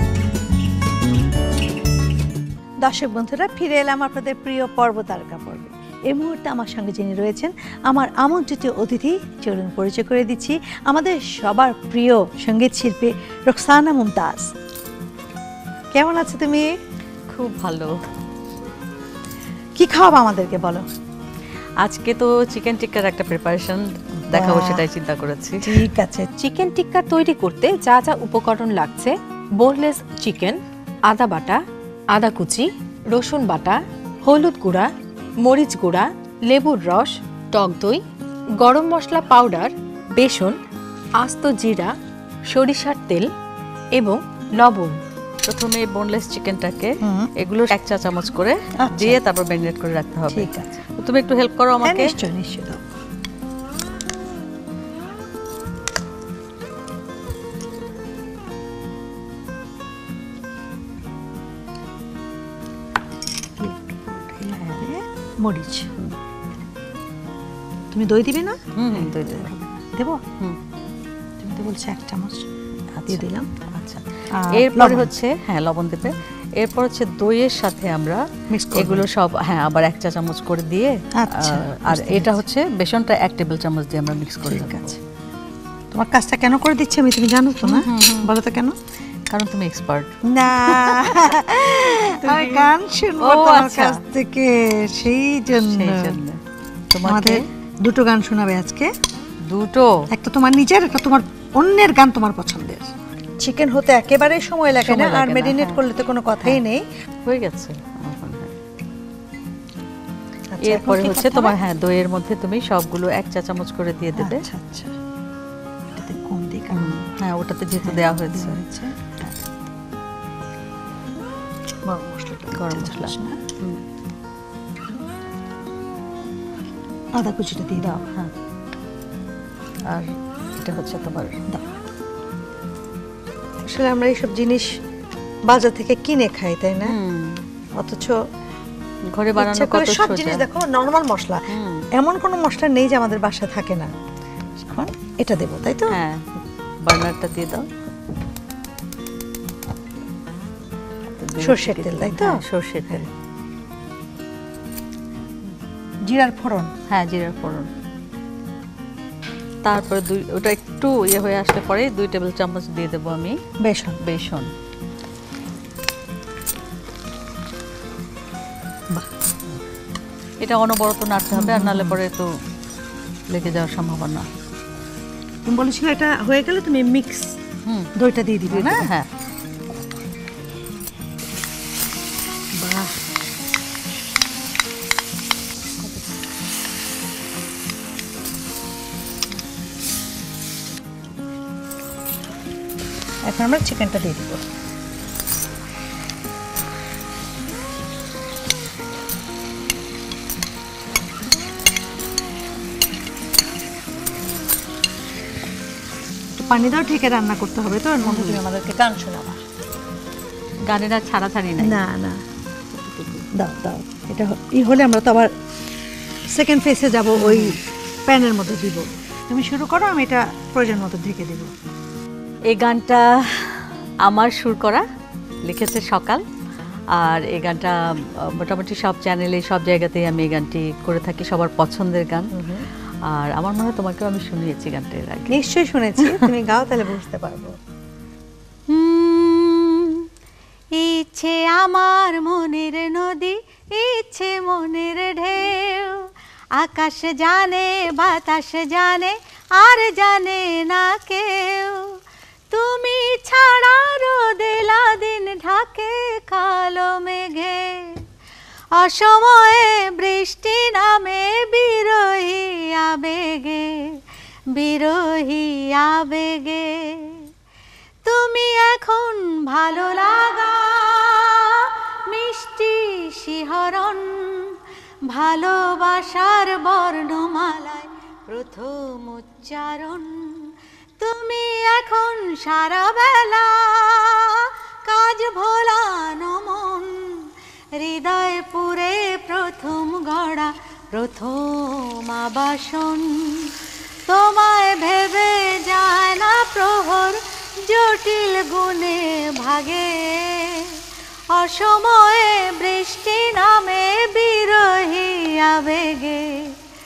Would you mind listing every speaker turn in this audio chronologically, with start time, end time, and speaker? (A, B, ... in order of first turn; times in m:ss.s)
0:02.8-0:14.5 A
0:15.9-0:16.7 A
0:17.3-0:17.9 B
0:19.8-0:20.8 A
0:21.8-0:25.8 B
0:24.3-0:24.8 A
0:25.6-0:26.3 A
0:26.4-0:31.6 C
0:32.1-0:34.9 C
0:35.4-0:38.0 C
0:38.6-0:40.6 C
0:41.2-0:41.9 C
0:42.5-0:43.3 C
0:43.9-0:45.0 C
0:45.4-0:52.2 B
0:47.0-0:47.3 A
0:48.8-0:49.2 A
0:50.3-0:50.8 A
0:51.8-0:52.8 A
1:03.6-1:05.9 A
1:04.5-1:04.8 B
1:07.9-1:10.2 A
1:08.8-1:09.5 B
1:11.4-1:12.4 A
1:13.0-1:18.2 B
1:13.1-1:13.5 A
1:14.3-1:15.1 A
1:18.5-1:19.1 A
1:18.7-1:24.9 B
1:21.2-1:22.4 A
1:24.5-1:25.0 A
1:25.9-1:28.8 A
1:27.6-1:28.3 B
1:29.3-1:30.1 B
1:30.3-1:36.2 A
1:30.6-1:31.0 B
1:32.2-1:32.7 B
1:33.2-1:34.0 B
1:35.6-1:36.4 B
1:36.9-1:37.5 B
1:37.0-1:38.9 A
1:39.4-1:39.9 B
1:40.1-1:46.8 A
1:44.8-1:45.8 B
1:47.2-1:48.5 B
1:50.5-1:51.6 A
1:50.6-1:54.4 B
1:54.1-1:54.9 A
1:56.0-1:57.0 A
1:56.7-1:58.6 B
1:57.8-1:59.1 A
2:01.8-2:03.4 A
2:02.5-2:03.8 B
2:07.2-2:08.0 A
2:07.8-2:08.3 B
2:09.9-2:11.4 B
2:13.7-2:14.7 A
2:15.5-2:17.0 A
2:16.8-2:17.4 B
2:17.8-2:18.2 A
2:19.1-2:20.4 B
2:19.4-2:23.9 A
2:21.5-2:21.8 B
2:24.6-2:26.0 A
2:25.9-2:26.2 B
2:26.8-2:27.7 B
2:31.1-2:33.1 B
2:31.4-2:32.4 A
2:36.1-2:36.7 A
2:36.9-2:37.7 B
2:39.6-2:43.3 B
2:43.6-2:44.0 A
2:44.0-2:44.5 B
2:50.4-2:52.3 B
2:51.3-2:52.0 A
2:53.3-2:54.3 B
2:55.4-2:57.4 A
2:58.0-2:58.8 A
2:58.5-2:59.1 B
3:02.6-3:03.0 A
3:13.3-3:14.4 A
3:26.4-3:29.4 A
3:28.0-3:28.4 B
3:30.7-3:31.8 B
3:31.6-3:32.2 A
3:32.8-3:33.2 B
3:33.3-3:35.3 A
3:36.3-3:41.5 A
3:37.2-3:37.6 B
3:42.5-3:44.8 B
3:45.4-3:46.2 B
3:47.0-3:52.3 B
3:52.3-3:52.6 A
3:53.1-3:55.4 B
3:55.3-3:57.5 A
3:58.8-3:59.6 D
4:00.8-4:12.0 D
4:12.5-4:18.0 D
4:18.8-4:24.0 D
4:24.5-4:27.3 D
4:28.0-4:53.5 D
4:54.0-5:06.5 D